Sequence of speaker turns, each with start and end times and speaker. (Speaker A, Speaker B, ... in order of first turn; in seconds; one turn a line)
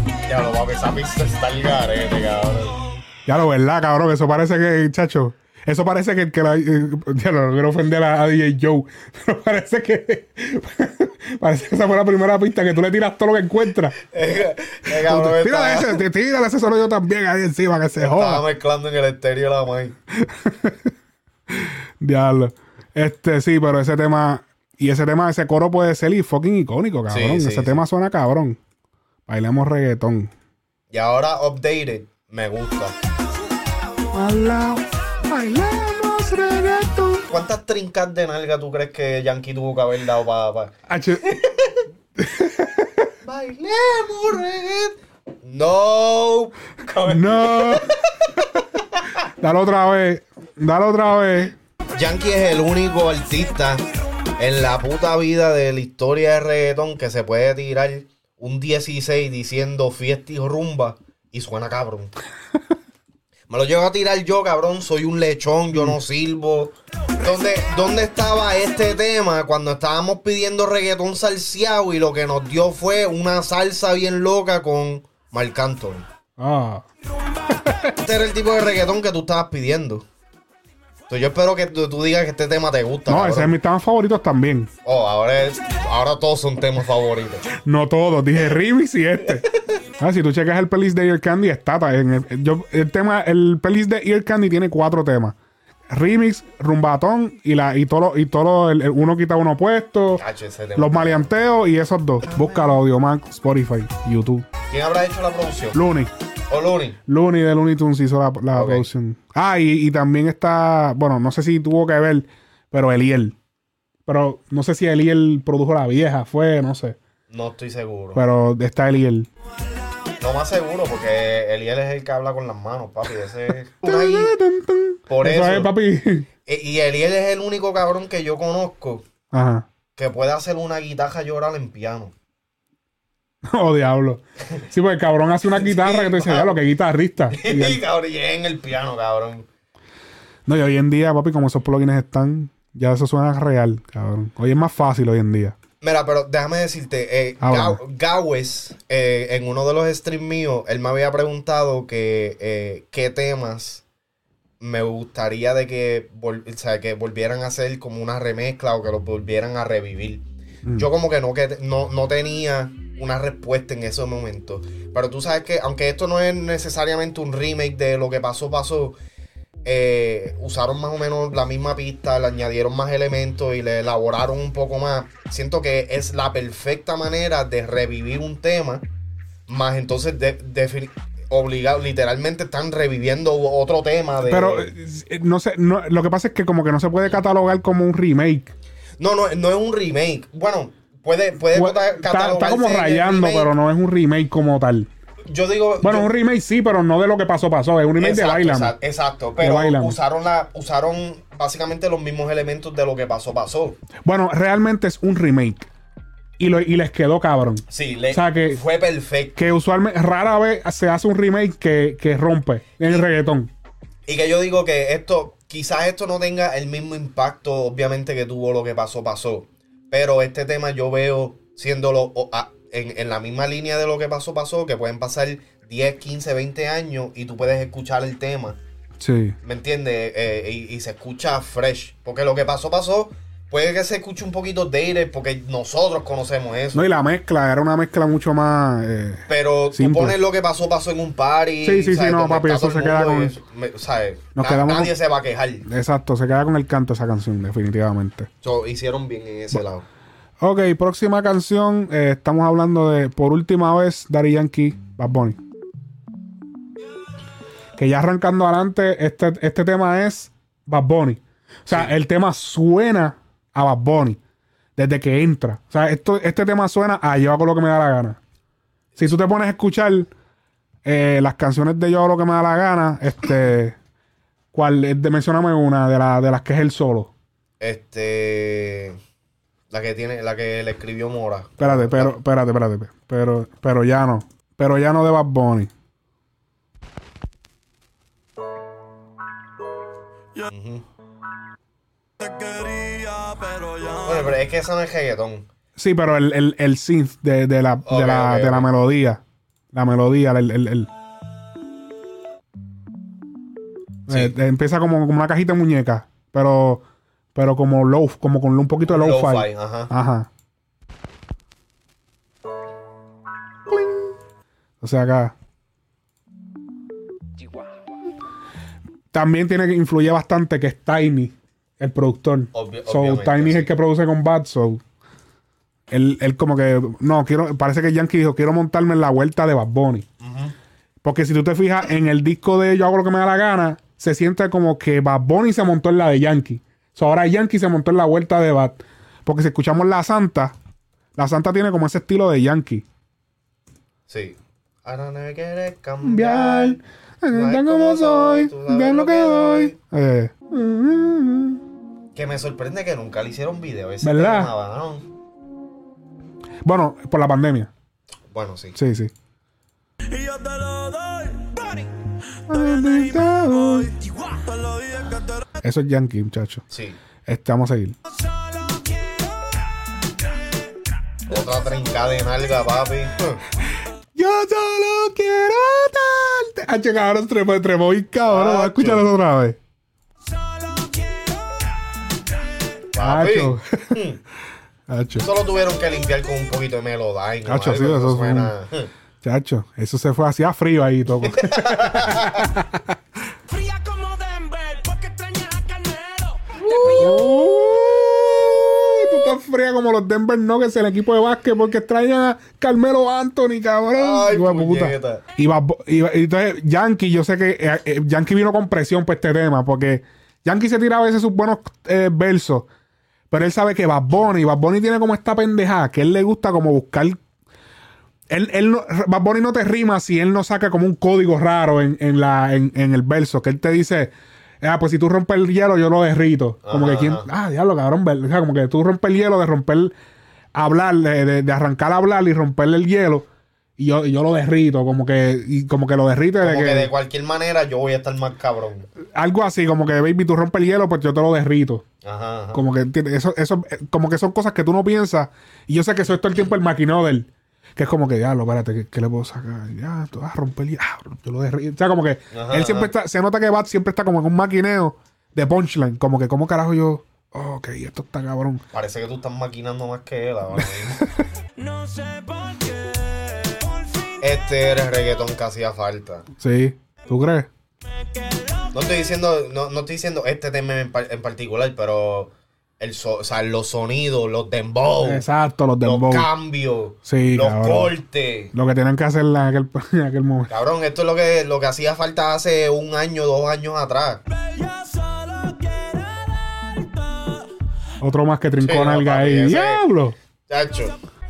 Speaker A: 0.2-2.8
Speaker B: 3.3-14.0
Speaker A: 14.1-16.0
Speaker B: 14.9-18.4
Speaker A: 18.0-20.0
Speaker B: 20.2-20.9
Speaker B: 21.5-28.6
Speaker A: 27.1-27.8
Speaker B: 29.3-30.3
Speaker A: 30.9-33.0
Speaker B: 34.1-37.3
Speaker A: 37.3-41.9
Speaker B: 40.9-41.3
Speaker B: 42.2-43.1
Speaker A: 43.2-49.1
Speaker B: 47.1-47.9
Speaker B: 49.4-51.5
Speaker A: 52.0-53.8
Speaker A: 54.4-62.1
Speaker A: 63.5-76.1
Speaker B: 76.4-76.8
Speaker B: 77.6-77.9
Speaker A: 78.0-80.1
Speaker A: 81.1-83.5
Speaker B: 83.1-84.7
Speaker A: 84.8-87.5
Speaker B: 87.5-89.5
Speaker B: 90.0-95.4
Speaker B: 95.9-100.2
Speaker A: 100.2-101.3
Speaker B: 100.8-104.5
Speaker A: 102.2-102.7
Speaker A: 104.7-105.8
Speaker B: 105.7-106.1
Speaker A: 106.5-107.0
Speaker B: 107.1-113.4
Speaker A: 108.5-108.9
Speaker B: 114.1-117.0
Speaker A: 117.3-118.2
Speaker B: 118.2-119.3
Speaker A: 120.2-124.4
Speaker B: 123.8-126.3
Speaker A: 125.1-125.7
Speaker A: 126.5-129.1
Speaker B: 129.3-129.7
Speaker A: 130.0-132.1
Speaker B: 133.4-137.8
Speaker A: 135.5-136.6
Speaker A: 137.3-139.5
Speaker B: 140.5-145.6
Speaker A: 145.8-153.8
Speaker B: 147.4-147.8
Speaker A: 154.6-169.0
Speaker A: 169.7-178.9
Speaker A: 179.5-184.7
Speaker B: 184.3-188.5
Speaker A: 189.0-193.5
Speaker B: 191.5-194.9
Speaker A: 195.3-196.1
Speaker B: 195.8-198.7
Speaker A: 198.0-203.8
Speaker B: 199.4-200.0
Speaker B: 204.1-205.7
Speaker B: 206.4-208.6
Speaker A: 207.7-209.5
Speaker B: 209.4-213.5
Speaker A: 214.1-228.6
Speaker B: 229.0-229.4
Speaker A: 229.4-236.9
Speaker B: 236.7-239.2
Speaker A: 239.3-245.7
Speaker B: 239.7-240.2
Speaker B: 241.6-243.3
Speaker B: 244.3-244.9
Speaker B: 245.7-248.3
Speaker A: 248.4-249.9
Speaker B: 250.4-255.4
Speaker B: 257.8-264.2
Speaker B: 264.8-268.2
Speaker B: 269.0-270.1
Speaker B: 270.9-273.8
Speaker B: 274.5-277.1
Speaker A: 277.6-279.0
Speaker A: 279.7-282.1
Speaker B: 281.6-285.7
Speaker A: 290.5-290.8
Speaker C: 292.2-293.9
Speaker A: 293.9-295.5
Speaker B: 295.8-299.2
Speaker A: 297.9-298.7
Speaker B: 299.7-300.9
Speaker A: 304.1-304.4
Speaker B: 304.1-306.8
Speaker B: 307.4-310.3
Speaker A: 308.9-309.9
Speaker B: 313.7-314.0
Speaker B: 314.8-315.3
Speaker B: 319.1-324.8
Speaker A: 322.5-323.7
Speaker B: 325.9-330.1
Speaker A: 330.2-330.6
Speaker B: 331.0-340.6
Speaker B: 341.1-342.9
Speaker A: 344.1-349.8
Speaker B: 346.0-351.6
Speaker A: 352.1-355.1
Speaker B: 354.0-354.5
Speaker B: 356.6-357.7
Speaker A: 358.3-358.8
Speaker B: 358.8-359.1
Speaker C: 360.1-365.4
Speaker B: 362.5-364.0
Speaker B: 365.6-366.6
Speaker A: 366.7-367.0
Speaker B: 367.2-368.0
Speaker C: 368.1-370.2
Speaker A: 371.3-373.4
Speaker B: 374.2-379.6
Speaker A: 378.3-379.1
Speaker C: 380.3-381.7
Speaker A: 382.9-384.2
Speaker B: 383.0-384.0
Speaker B: 384.9-385.3
Speaker A: 385.2-388.9
Speaker B: 387.4-388.5
Speaker B: 389.2-392.9
Speaker A: 391.3-392.5
Speaker C: 393.5-397.2
Speaker A: 396.6-397.2
Speaker B: 396.8-412.7
Speaker A: 403.9-405.2
Speaker B: 413.3-417.2
Speaker B: 418.3-429.9
Speaker A: 426.7-427.3
Speaker B: 430.6-433.3
Speaker B: 433.8-436.9
Speaker A: 436.4-438.9
Speaker B: 439.1-441.9
Speaker A: 442.0-442.6
Speaker B: 442.5-458.6
Speaker A: 452.3-452.9
Speaker A: 458.7-461.0
Speaker C: 461.6-464.2
Speaker A: 464.2-466.3
Speaker B: 466.4-467.5
Speaker C: 468.2-468.7
Speaker A: 468.7-475.2
Speaker B: 475.0-476.3
Speaker A: 475.8-478.5
Speaker B: 477.1-477.9
Speaker B: 478.5-480.5
Speaker A: 480.5-484.2
Speaker C: 484.4-487.5
Speaker B: 488.0-490.2
Speaker A: 488.6-489.8
Speaker A: 490.5-491.0